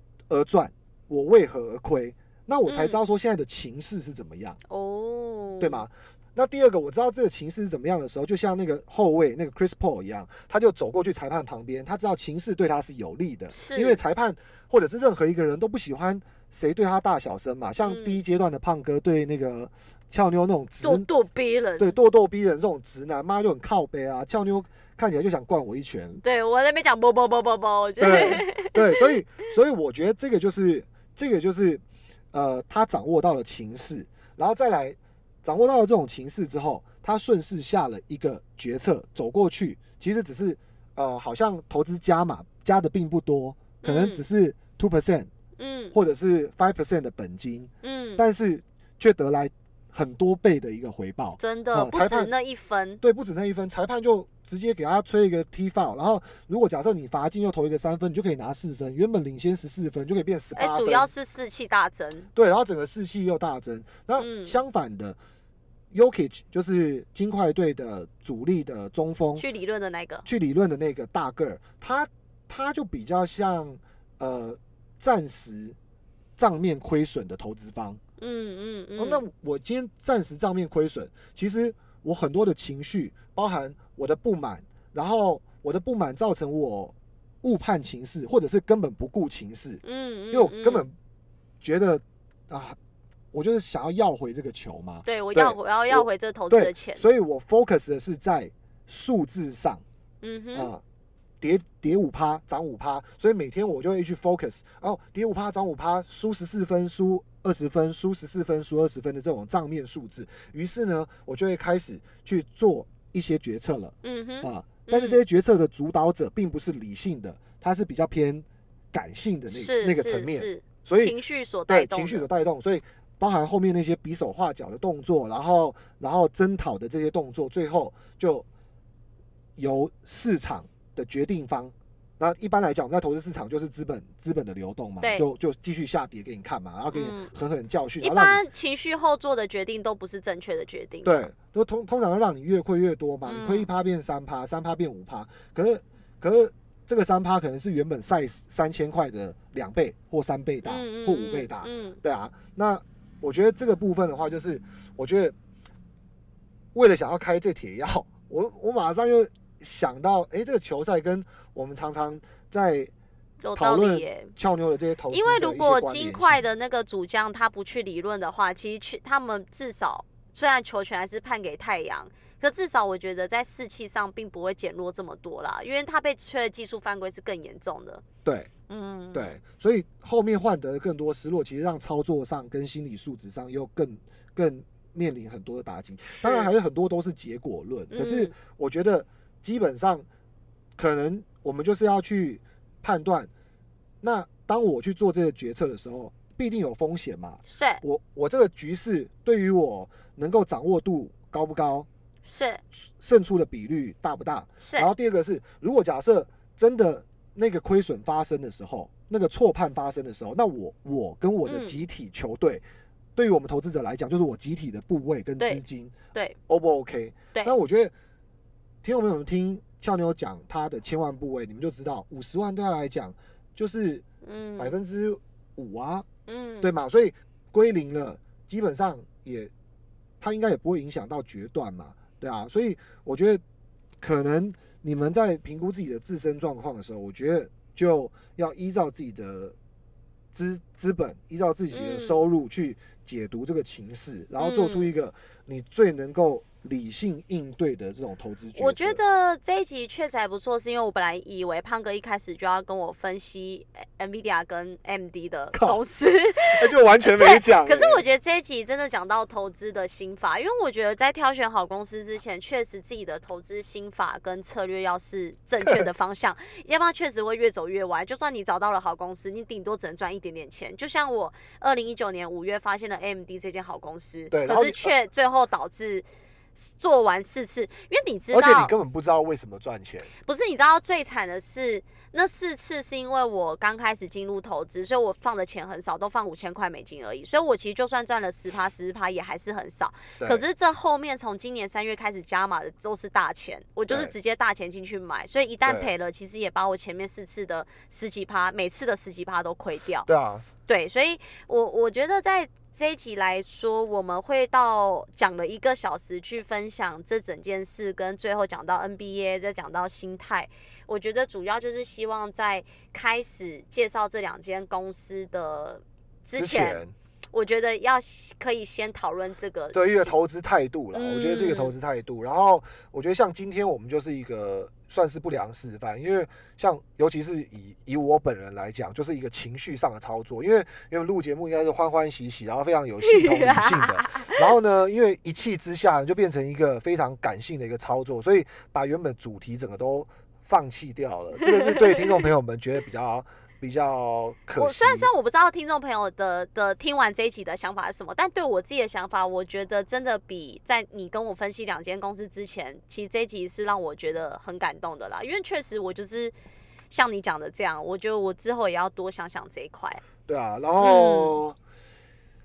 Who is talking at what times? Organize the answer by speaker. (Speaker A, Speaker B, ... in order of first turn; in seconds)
Speaker A: 0.3-4.6, 5.6-21.1, 21.8-26.2, 28.0-45.3, 45.9-52.3, 53.0-61.1, 62.3-65.2, 65.9-69.4, 70.2-75.8, 76.4-78.0, 79.0-90.9, 91.6-92.8, 93.3-99.8, 100.5-100.8, 101.4-121.1, 121.7-128.4, 129.6-138.4, 141.0-155.3, 156.7-162.9, 163.6-166.4, 178.2-178.5, 179.1-190.1, 190.8-193.3, 194.0-201.9, 202.4-212.6, 213.2-215.9, 216.5-217.9, 218.8-224.0, 224.6-226.1, 226.6-229.5, 230.2-233.4, 234.0-239.6, 240.3-249.0, 255.5-255.8, 256.5-258.0, 274.3-274.9, 278.3-280.1, 290.2-290.4, 295.6-295.9, 300.1-300.4, 316.3-316.9, 319.7-345.1, 360.2-361.6
Speaker B: 2.7-3.0, 4.7-5.8, 13.5-14.0, 17.8-18.2, 20.8-21.9, 26.2-29.1, 43.8-44.2, 45.6-45.9, 47.8-48.2, 51.4-53.0, 60.5-62.3, 64.2-64.6, 69.3-70.2, 78.2-79.2, 89.8-90.8, 95.0-97.0, 100.2-100.7, 114.0-115.2, 119.5-122.2, 135.0-135.3, 136.9-137.3, 138.0-141.1, 143.2-143.7, 150.6-152.0, 163.4-164.3, 165.1-178.0, 178.7-179.4, 186.2-186.5, 187.9-188.3, 197.5-197.8, 202.2-202.6, 204.6-204.9, 211.4-211.8, 224.2-224.7, 226.3-226.7, 241.7-242.2, 244.4-244.9, 248.6-278.7, 280.2-300.1, 300.6-320.1, 320.9-321.7, 333.0-334.4, 341.4-342.2, 344.6-356.3, 356.9-360.0, 360.8-361.4